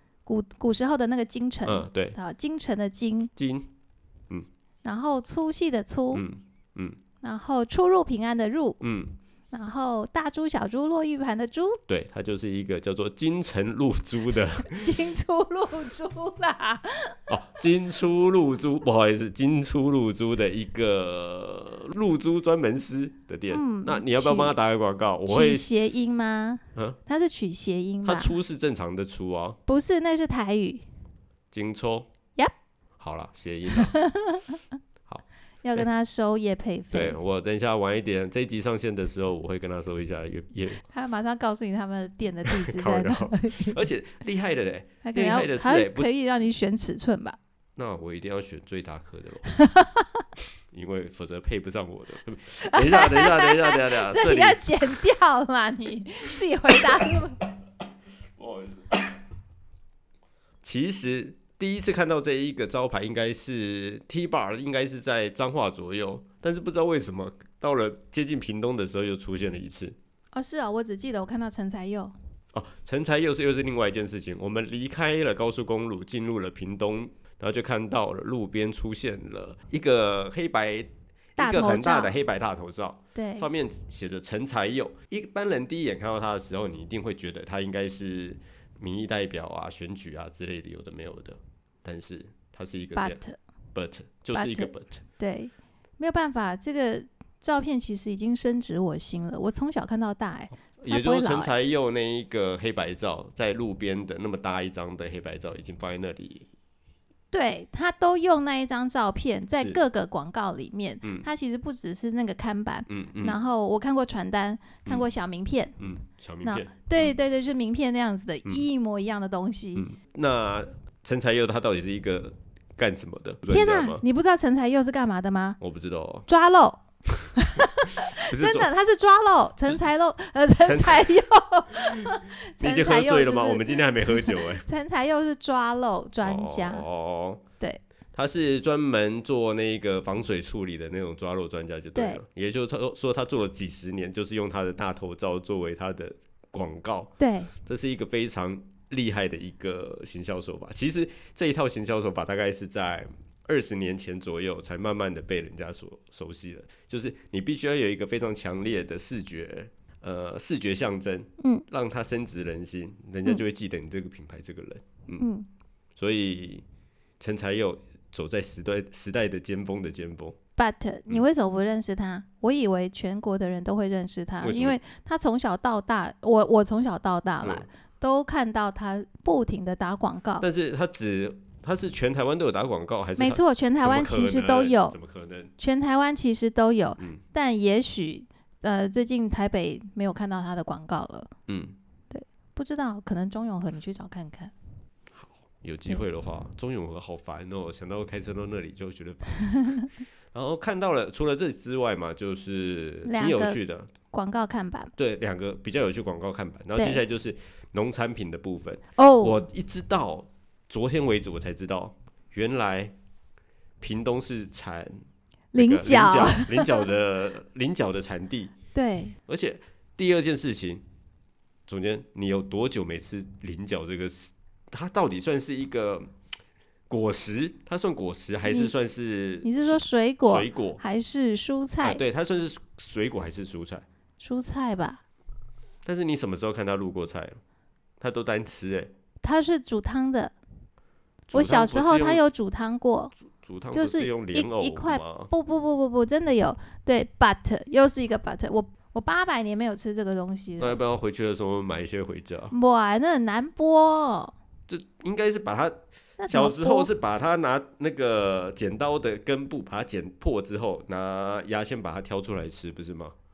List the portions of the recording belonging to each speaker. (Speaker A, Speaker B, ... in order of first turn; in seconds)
Speaker A: 0.3-3.3, 4.8-6.3, 7.2-8.8, 9.5-11.8, 14.7-17.3, 23.5-24.5, 25.3-28.4, 29.7-30.8, 33.7-34.6, 35.6-37.2, 40.9-43.8, 45.0-47.4, 49.5-50.2, 52.6-57.5, 70.3-72.1, 81.4-82.2, 83.2-83.5, 93.0-93.4, 94.3-101.5, 107.3-115.8, 116.4-119.9, 123.5-125.6, 126.3-126.8, 127.3-136.8, 147.2-147.5, 165.2-165.5, 170.6-180.4, 183.2-185.0, 185.6-191.3, 192.1-194.5, 199.4-199.9, 203.1-203.6, 204.1-204.9, 206.8-207.0, 209.0-209.4, 215.5-216.8, 218.8-219.2, 228.5-228.7, 229.4-232.0, 234.2-235.0, 239.2-240.3, 241.3-243.1, 243.7-250.8, 252.5-254.3, 256.2-256.9
Speaker B: 1.6-2.2, 3.4-3.7, 6.1-7.0, 8.8-9.2, 11.9-15.0, 17.3-25.7, 28.0-29.6, 31.5-32.1, 33.0-33.9, 36.9-40.8, 42.5-46.1, 47.8-49.5, 50.7-55.0, 58.4-59.0, 60.6-70.0, 72.5-93.2, 93.7-95.0, 100.8-106.5, 112.9-113.4, 115.8-117.2, 119.8-124.0, 125.6-126.3, 127.2-127.6, 128.2-128.7, 130.6-131.2, 131.8-134.7, 136.2-137.4, 138.1-165.2, 166.0-166.7, 167.2-170.4, 174.4-174.8, 177.4-177.7, 180.4-185.5, 191.5-191.8, 195.1-199.7, 200.3-203.9, 205.0-212.9, 213.8-214.9, 215.6-218.5, 219.3-220.8, 221.7-226.1, 226.9-230.8, 231.8-233.9, 235.8-237.4, 238.0-238.9, 241.3-242.2, 243.3-245.3, 250.6-252.6, 254.7-263.1